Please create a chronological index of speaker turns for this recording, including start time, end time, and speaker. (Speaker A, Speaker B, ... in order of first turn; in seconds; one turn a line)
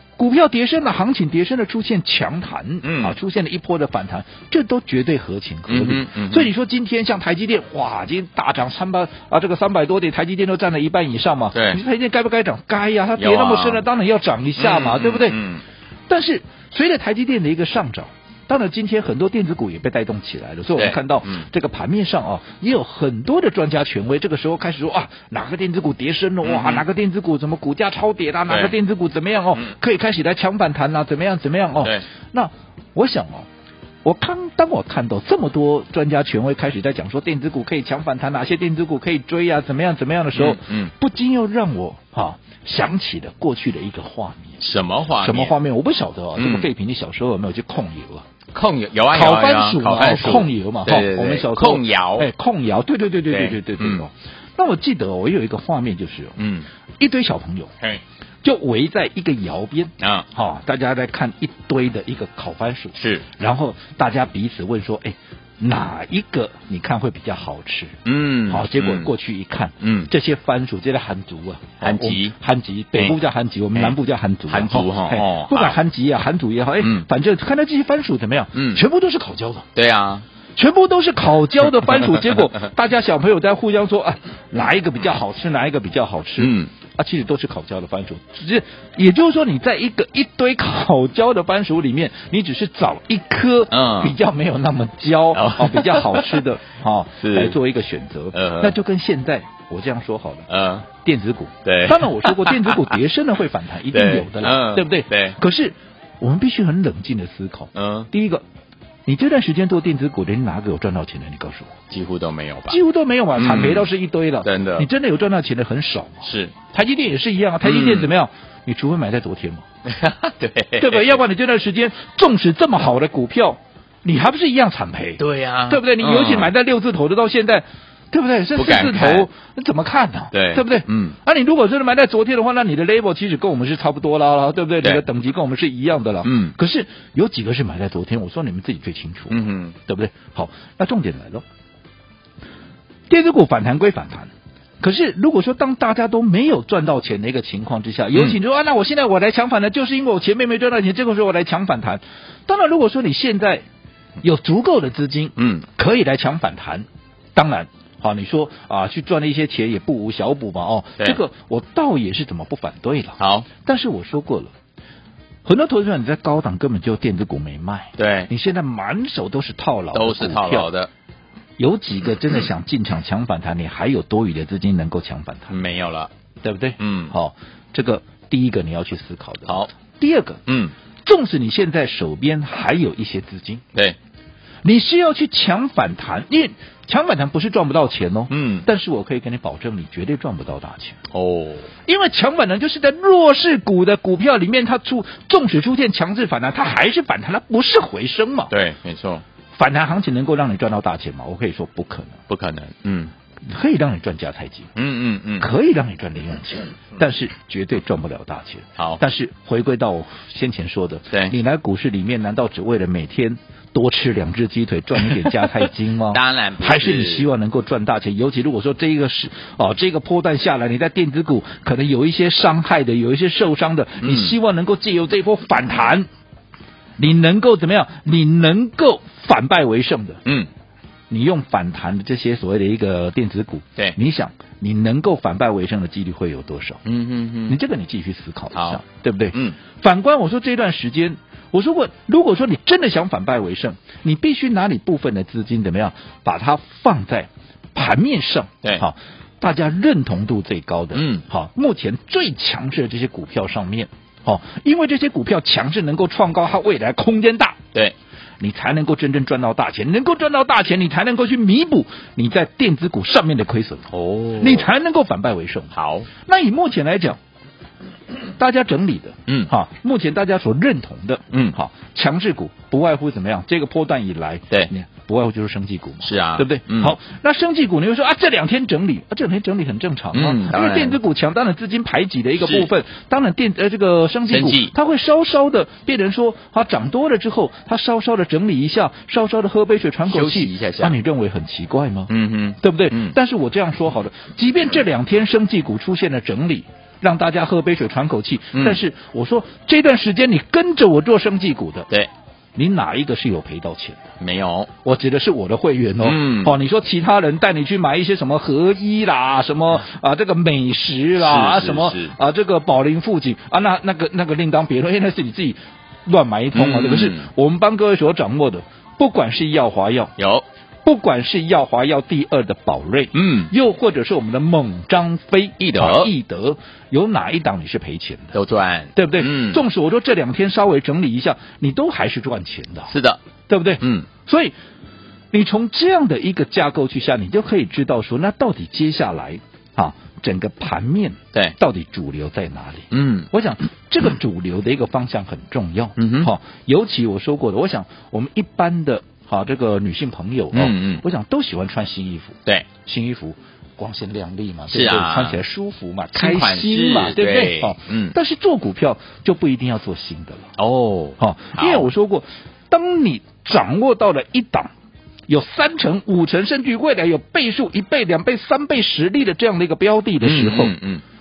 Speaker A: 0.2-15.4
Speaker B: 2.8-3.2
Speaker B: 5.7-6.5
Speaker B: 11.5-11.8
Speaker B: 13.2-13.8
Speaker B: 14.6-15.6
Speaker A: 16.1-33.5
Speaker B: 20.8-21.5
Speaker B: 26.4-26.8
Speaker B: 28.5-28.7
Speaker A: 34.0-44.6
Speaker B: 40.4-40.9
Speaker B: 44.6-45.5
Speaker A: 45.2-48.3
Speaker B: 46.4-46.7
Speaker B: 48.5-52.3
Speaker A: 49.1-56.4
Speaker B: 53.3-54.0
Speaker B: 56.4-56.7
Speaker A: 57.0-57.7
Speaker A: 58.4-79.7
Speaker B: 60.0-60.3
Speaker B: 63.0-63.2
Speaker B: 68.0-69.1
Speaker B: 69.8-70.1
Speaker B: 71.8-72.3
Speaker B: 74.5-75.8
Speaker B: 76.8-77.1
Speaker B: 78.5-78.8
Speaker B: 79.8-80.2
Speaker A: 80.6-108.4
Speaker B: 86.4-86.7
Speaker B: 93.7-94.2
Speaker B: 95.3-96.4
Speaker B: 97.2-97.6
Speaker B: 98.3-98.8
Speaker B: 100.5-100.9
Speaker B: 101.7-102.9
Speaker B: 103.9-105.4
Speaker B: 107.7-108.1
Speaker A: 109.1-111.8
Speaker B: 111.9-112.8
Speaker A: 112.7-119.7
Speaker B: 113.4-113.9
Speaker B: 114.4-114.9
Speaker B: 116.2-116.5
Speaker B: 117.6-118.1
Speaker B: 119.8-121.2
Speaker A: 120.8-141.4
Speaker B: 125.2-126.5
Speaker B: 128.6-129.3
Speaker B: 130.3-131.2
Speaker B: 136.2-136.5
Speaker B: 139.3-139.8
Speaker A: 143.1-153.6
Speaker A: 154.2-164.5
Speaker B: 155.4-155.7
Speaker B: 163.2-163.5
Speaker A: 165.4-170.7
Speaker B: 168.0-168.3
Speaker B: 169.9-170.9
Speaker A: 171.6-175.6
Speaker B: 175.5-176.1
Speaker A: 176.4-180.4
Speaker B: 176.8-177.1
Speaker B: 180.5-180.7
Speaker A: 181.1-183.6
Speaker A: 184.6-191.0
Speaker B: 188.3-188.7
Speaker B: 191.1-191.7
Speaker A: 191.9-198.5
Speaker B: 198.5-199.2
Speaker A: 199.6-202.2
Speaker B: 202.3-203.1
Speaker A: 203.4-204.7
Speaker B: 204.8-205.5
Speaker A: 205.4-226.1
Speaker B: 216.1-217.3
Speaker B: 224.0-224.3
Speaker A: 227.0-230.2
Speaker A: 231.1-236.8
Speaker B: 236.8-237.6
Speaker A: 237.5-257.6
Speaker B: 238.5-238.8
Speaker B: 250.9-251.2
Speaker A: 258.4-267.2
Speaker B: 263.9-264.7
Speaker B: 265.7-266.1
Speaker A: 268.2-301.9
Speaker B: 276.0-277.0
Speaker B: 280.1-281.0
Speaker B: 282.4-282.7
Speaker B: 284.3-284.7
Speaker B: 290.1-291.0
Speaker B: 292.1-293.2
Speaker B: 298.5-298.8
Speaker A: 302.6-304.1
Speaker B: 304.2-304.7
Speaker A: 304.8-320.1
Speaker B: 306.0-306.6
Speaker B: 311.2-312.1
Speaker B: 316.5-317.3
Speaker B: 320.2-320.4
Speaker A: 320.8-328.4
Speaker B: 323.1-323.5
Speaker B: 325.6-326.1
Speaker B: 328.3-329.6
Speaker A: 328.9-332.9
Speaker B: 332.9-333.2
Speaker A: 333.5-334.5
Speaker B: 333.8-334.1
Speaker A: 335.3-360.5
Speaker B: 342.9-343.3
Speaker B: 346.0-346.3
Speaker B: 350.5-351.0
Speaker B: 354.7-355.4
Speaker B: 356.1-358.1
Speaker B: 360.6-361.9
Speaker A: 361.2-364.7
Speaker A: 365.3-370.8
Speaker B: 370.2-371.0